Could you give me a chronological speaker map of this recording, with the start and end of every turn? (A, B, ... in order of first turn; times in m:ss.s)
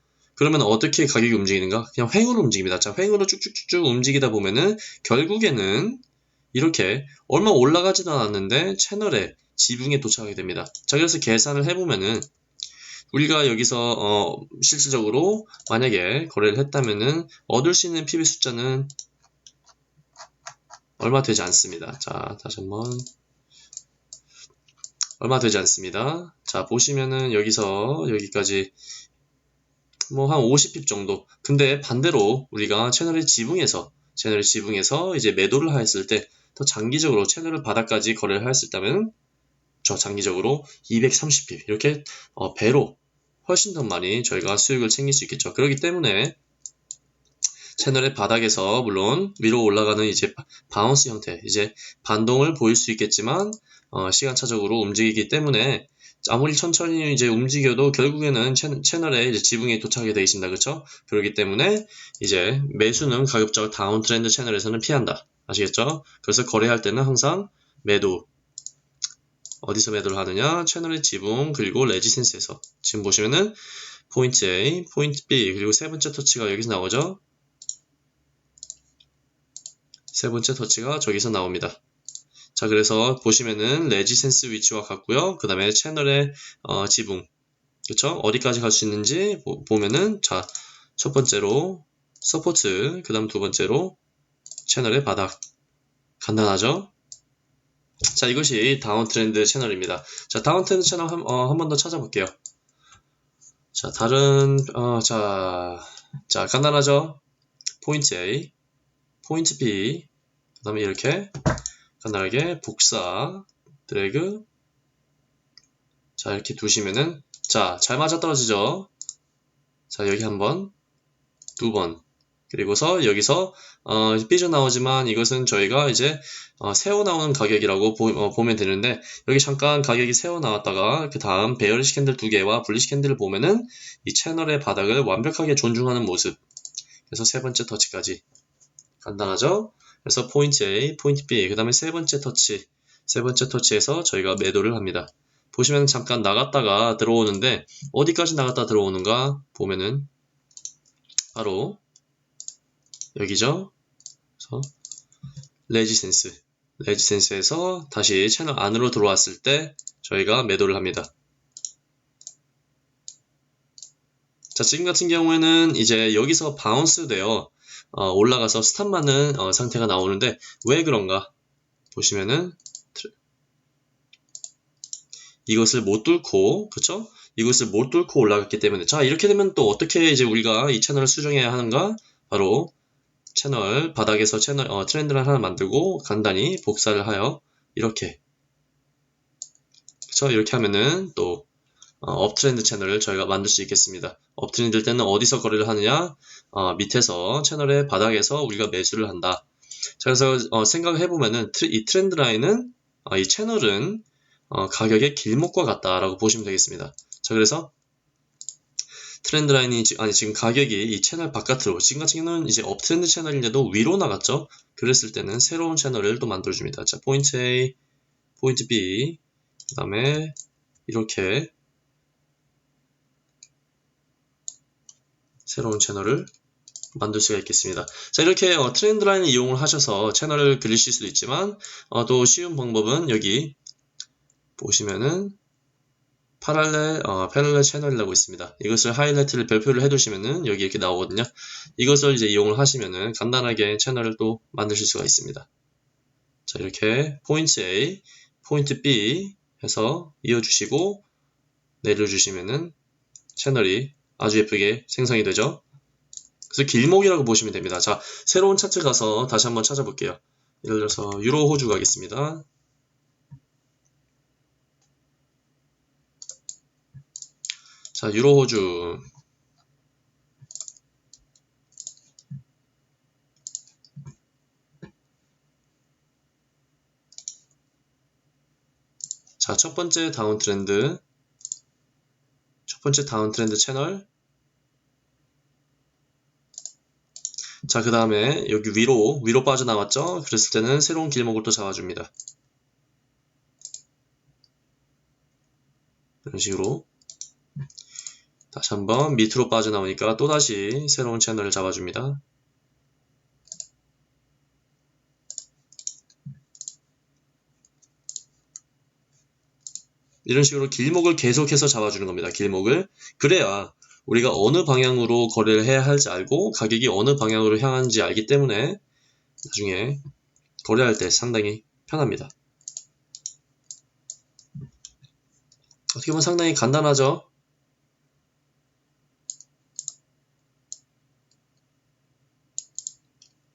0:00.4-0:12.3 A
0:13.1-0:18.9 A
0:21.0-0:23.1 A
0:25.2-0:28.7 A
0:30.1-0:39.1 A
0:39.8-0:46.4 A
0:47.8-1:08.3 A
1:09.6-1:13.6 A
1:14.1-1:17.2 A
1:20.1-1:21.8 A
1:22.6-1:27.3 A
1:27.9-1:34.0 A
1:34.6-1:35.4 A
1:36.2-1:36.9 A
1:38.1-1:42.3 A
1:43.7-1:47.2 A
1:47.8-1:48.5 A
1:49.2-1:50.1 A
1:50.6-1:51.3 A
1:52.0-1:54.4 A
1:56.2-1:58.9 A
1:59.9-2:00.7 A
2:01.6-2:16.4 A
2:17.1-2:18.2 A
2:19.0-2:30.1 A
2:31.3-2:31.8 A
2:33.1-2:33.7 A
2:34.4-2:34.7 A
2:35.7-2:41.1 A
2:44.5-2:51.3 A
2:51.9-2:53.1 A
2:55.5-3:02.7 A
3:03.3-3:08.2 A
3:10.1-3:11.5 A
3:12.0-3:19.5 A
3:20.0-3:27.7 A
3:29.2-3:37.7 A
3:38.4-3:39.2 A
3:39.7-3:41.5 A
3:45.4-3:46.3 A
3:47.0-3:53.6 A
3:54.6-3:55.4 A
3:56.4-4:05.5 A
4:06.5-4:11.0 A
4:11.8-4:12.8 A
4:13.4-4:15.6 A
4:16.5-4:22.4 A
4:27.9-4:29.0 A
4:39.4-4:41.0 A
4:42.7-4:44.1 A
4:47.7-4:52.1 A
4:56.2-4:56.9 A
4:58.5-5:02.2 A
5:10.2-5:18.8 A
5:19.4-5:20.0 A
5:20.6-5:22.3 A
5:25.9-5:27.3 A